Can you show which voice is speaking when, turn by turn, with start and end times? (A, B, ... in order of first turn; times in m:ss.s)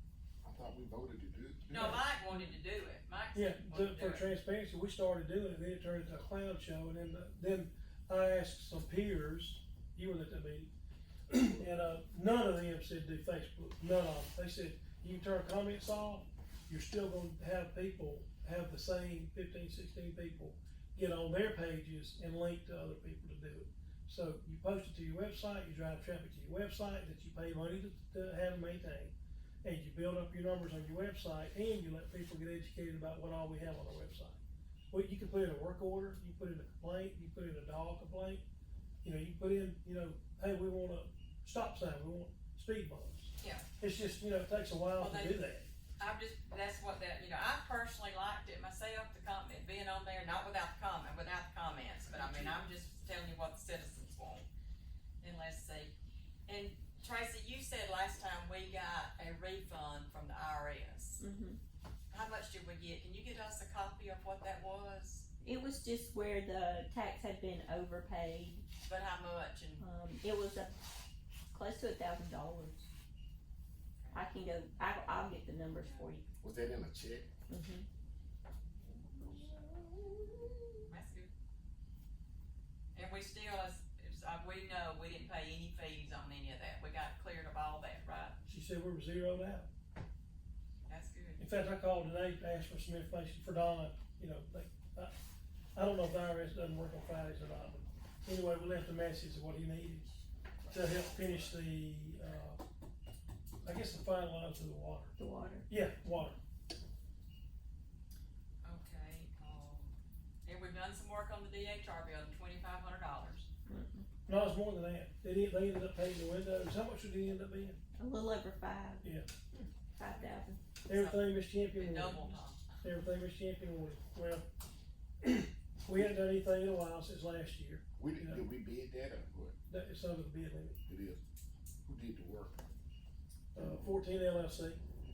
0:00.4-0:02.0 A
0:01.7-0:04.3 B
0:03.3-0:10.7 C
0:11.3-0:34.4 C
0:34.9-0:38.4 C
0:39.0-0:45.7 C
0:45.0-0:45.4 B
0:46.0-0:54.4 B
0:52.1-0:52.6 C
0:55.2-0:55.9 B
0:56.5-1:01.2 B
1:01.2-1:01.6 D
1:02.1-1:05.3 B
1:05.4-1:08.6 D
1:08.8-1:09.8 B
1:09.8-1:10.7 D
1:11.5-1:12.9 D
1:14.0-1:14.2 B
1:14.1-1:16.3 D
1:15.8-1:16.1 B
1:16.4-1:17.3 A
1:17.5-1:17.9 D
1:19.2-1:20.6 D
1:20.9-1:21.3 B
1:22.9-1:28.4 B
1:28.4-1:29.7 C
1:30.9-1:31.4 B
1:31.4-1:35.1 C
1:35.7-1:40.1 C
1:40.6-1:41.5 B
1:40.7-1:42.6 C
1:43.6-1:45.1 C
1:45.2-1:45.7 D
1:45.7-1:46.4 C
1:48.6-1:49.9 B
1:50.4-1:53.5 B
1:53.6-1:54.0 D
1:54.3-1:57.8 C
1:58.0-1:59.1 D
1:59.0-1:59.3 C
1:59.9-2:00.6 D
2:00.1-2:02.8 B
2:00.8-2:04.4 C
2:05.2-2:08.4 C
2:08.0-2:09.5 A
2:09.7-2:10.8 C
2:10.9-2:11.2 A
2:11.8-2:12.6 A
2:13.5-2:14.8 C